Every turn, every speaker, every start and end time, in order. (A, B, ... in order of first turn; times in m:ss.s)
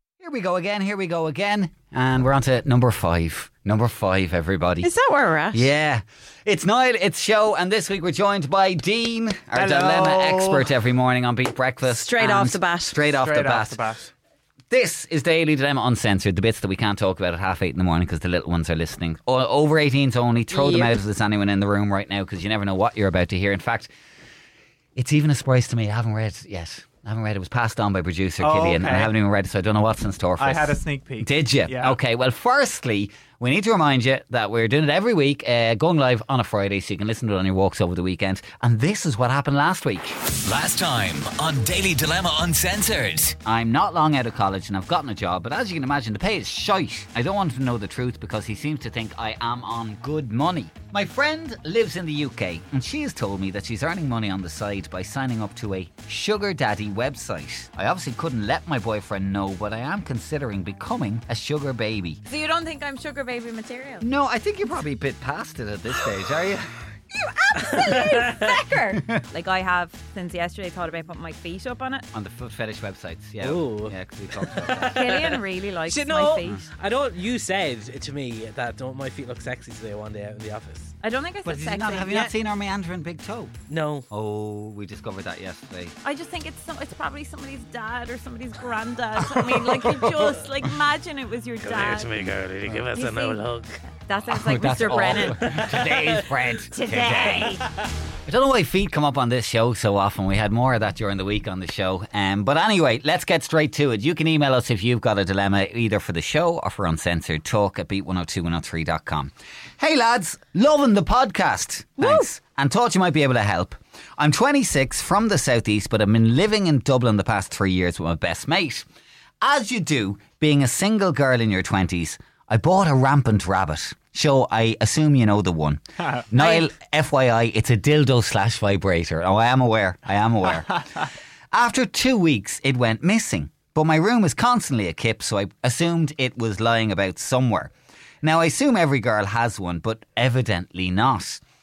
0:00.2-0:04.9 A
0:04.8-0:05.7 B
0:05.5-0:13.8 A
0:09.5-0:10.7 C
0:11.9-0:13.0 B
0:13.1-0:14.1 C
0:14.7-0:23.9 A
0:20.5-0:21.0 B
0:25.0-0:40.2 A
0:28.4-0:29.1 C
0:30.4-0:32.0 C
0:40.4-0:43.4 D
0:43.4-1:02.2 A
1:02.3-1:04.1 B
1:04.0-1:06.7 A
1:07.1-1:12.0 B
1:07.8-1:08.4 E
1:12.1-1:15.0 A
1:13.4-1:20.9 E
1:14.8-1:16.7 B
1:21.0-1:22.3 B
1:21.4-1:23.5 A
1:23.7-1:24.1 E
1:24.1-1:25.9 A
1:26.0-1:32.3 B
1:31.6-1:33.8 E
1:32.9-1:35.6 B
1:34.3-1:37.6 A
1:35.5-1:36.0 E
1:36.7-1:37.7 B
1:38.2-1:58.8 A
1:52.0-1:52.3 B
1:59.4-2:10.7 A
2:06.4-2:06.7 B
2:11.5-2:21.4 A